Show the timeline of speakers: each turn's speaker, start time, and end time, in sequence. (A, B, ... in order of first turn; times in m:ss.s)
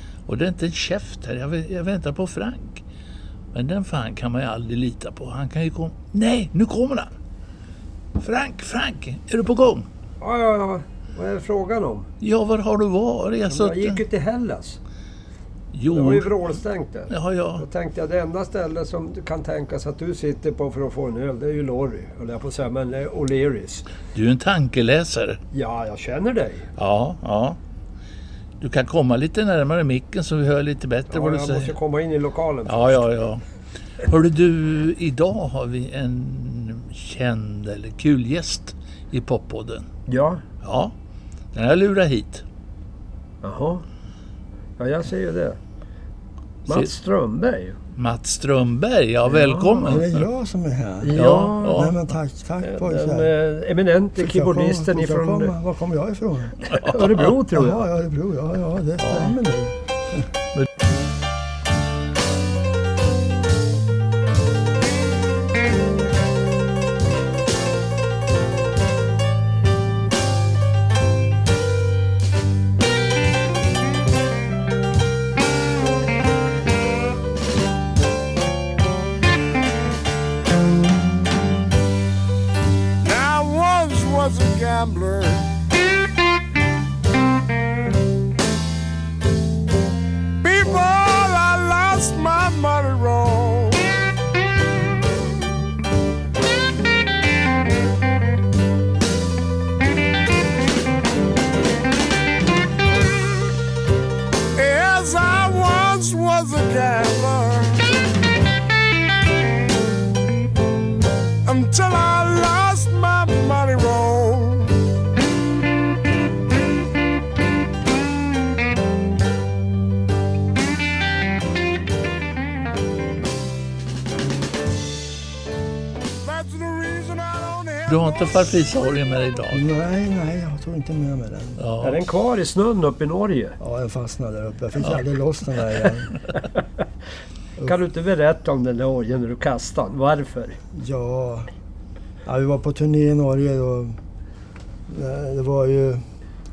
0:00.3-0:02.8 A
0:03.5-0:07.1 A
0:08.2-0:09.9 A
0:10.2-0:12.1 B
0:12.2-0:14.0 A
0:13.5-0:14.8 B
0:15.7-0:16.6 A
0:15.9-0:23.9 B
0:17.1-0:17.6 A
0:24.1-0:25.4 A
0:25.5-0:26.7 B
0:26.8-0:27.6 A
0:28.6-0:31.8 A
0:31.1-0:33.1 B
0:32.7-0:33.4 A
0:34.0-0:39.9 A
0:40.1-0:40.4 B
0:40.6-0:40.9 A
0:41.5-0:42.4 A
0:43.4-0:43.8 B
0:44.8-0:45.6 B
0:46.7-0:47.8 B
0:48.0-0:50.3 A
0:49.3-0:50.0 B
0:49.8-0:53.3 C
0:51.0-0:51.8 B
0:51.1-0:52.0 A
0:52.6-0:55.5 B
0:54.2-0:56.7 C
0:56.7-0:57.8 B
0:56.7-0:57.3 A
0:57.5-1:00.3 C
0:59.0-0:59.4 A
1:23.0-1:25.5 D
1:30.4-1:33.9 D
1:44.6-1:47.9 D
1:51.4-1:54.8 D
2:06.2-2:08.4 D
2:07.9-2:09.7 A
2:09.5-2:11.6 C
2:11.6-2:12.0 A
2:11.8-2:13.6 B
2:13.6-2:16.2 C
2:17.6-2:20.6 B
2:20.7-2:21.5 C
2:22.2-2:24.0 C
2:24.9-2:26.0 C